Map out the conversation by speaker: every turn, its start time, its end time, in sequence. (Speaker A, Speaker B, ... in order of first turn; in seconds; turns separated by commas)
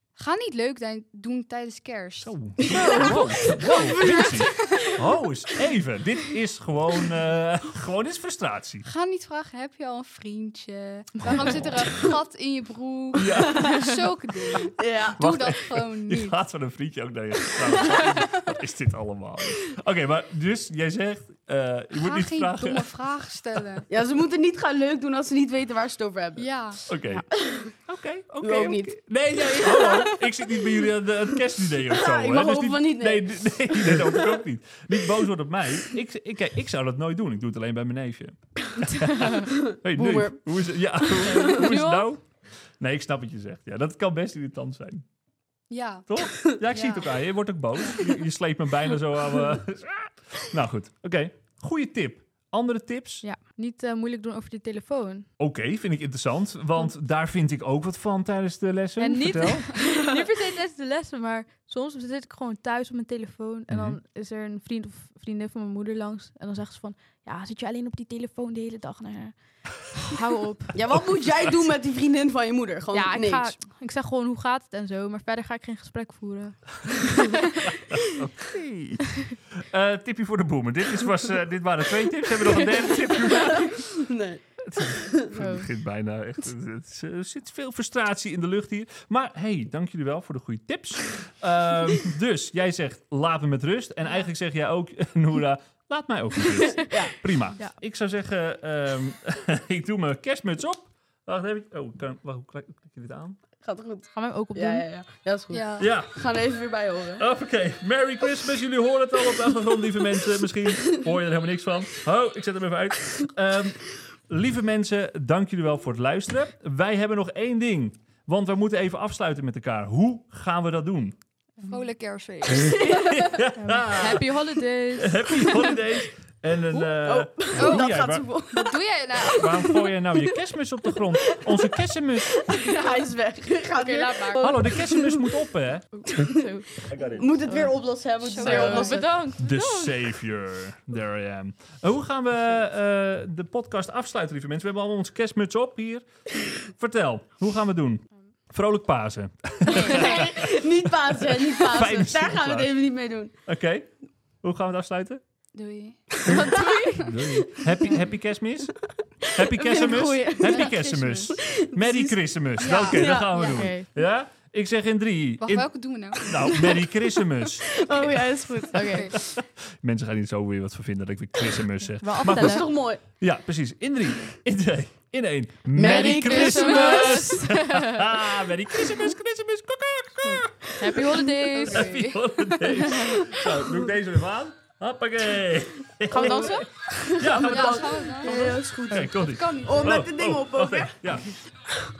Speaker A: 0.1-3.1, Speaker B: 2.2-8.8, Speaker C: 2.6-5.0, Speaker A: 8.8-16.4, Speaker B: 11.2-12.0, Speaker B: 13.2-13.8, Speaker C: 14.8-15.2, Speaker B: 15.2-22.9, Speaker A: 22.0-23.9, Speaker C: 23.9-26.9, Speaker A: 26.4-26.9, Speaker B: 26.9-45.0, Speaker C: 27.4-27.7, Speaker C: 28.4-28.9, Speaker C: 32.0-34.1, Speaker C: 39.8-40.6, Speaker D: 41.4-42.1, Speaker A: 45.7-47.1, Speaker B: 46.1-53.2, Speaker D: 53.2-55.3, Speaker B: 55.4-59.7, Speaker D: 59.0-70.8, Speaker B: 63.7-64.0, Speaker C: 70.7-73.5, Speaker B: 70.9-71.6, Speaker D: 72.9-77.7, Speaker B: 77.8-84.0, Speaker C: 83.6-85.3, Speaker B: 84.6-103.4, Speaker D: 85.3-85.7, Speaker C: 103.6-107.2, Speaker D: 104.1-104.9, Speaker A: 105.5-105.9, Speaker B: 105.8-106.2, Speaker B: 107.2-121.2, Speaker A: 121.6-123.4, Speaker B: 122.5-124.4, Speaker D: 123.5-125.8, Speaker B: 125.0-128.4, Speaker C: 126.8-128.8, Speaker A: 127.5-128.0, Speaker A: 128.5-129.9, Speaker B: 129.2-132.4, Speaker C: 132.4-135.1, Speaker D: 133.7-134.6, Speaker B: 134.4-136.1, Speaker D: 135.9-136.8, Speaker C: 136.1-136.4, Speaker B: 136.9-137.4, Speaker C: 137.1-139.1, Speaker D: 137.4-137.7, Speaker A: 138.2-139.1, Speaker D: 138.3-140.1, Speaker B: 138.5-138.8, Speaker B: 139.3-146.1, Speaker B: 146.6-152.8, Speaker A: 149.7-150.3, Speaker C: 149.7-153.3, Speaker B: 153.4-155.2, Speaker A: 155.5-156.2, Speaker B: 156.2-167.8, Speaker D: 156.2-157.3, Speaker C: 159.6-160.7, Speaker D: 159.8-160.2, Speaker A: 160.4-161.4, Speaker C: 161.4-163.6, Speaker A: 162.6-163.0, Speaker D: 162.7-163.9, Speaker A: 165.4-166.8, Speaker C: 167.7-169.2, Speaker D: 168.7-169.1, Speaker A: 168.7-169.1, Speaker B: 169.1-191.4, Speaker D: 172.0-172.7, Speaker C: 172.2-173.0, Speaker C: 175.7-177.4, Speaker D: 175.8-178.1, Speaker D: 180.2-183.2, Speaker C: 181.5-182.0, Speaker D: 186.1-186.7, Speaker C: 186.1-191.1, Speaker A: 187.3-190.1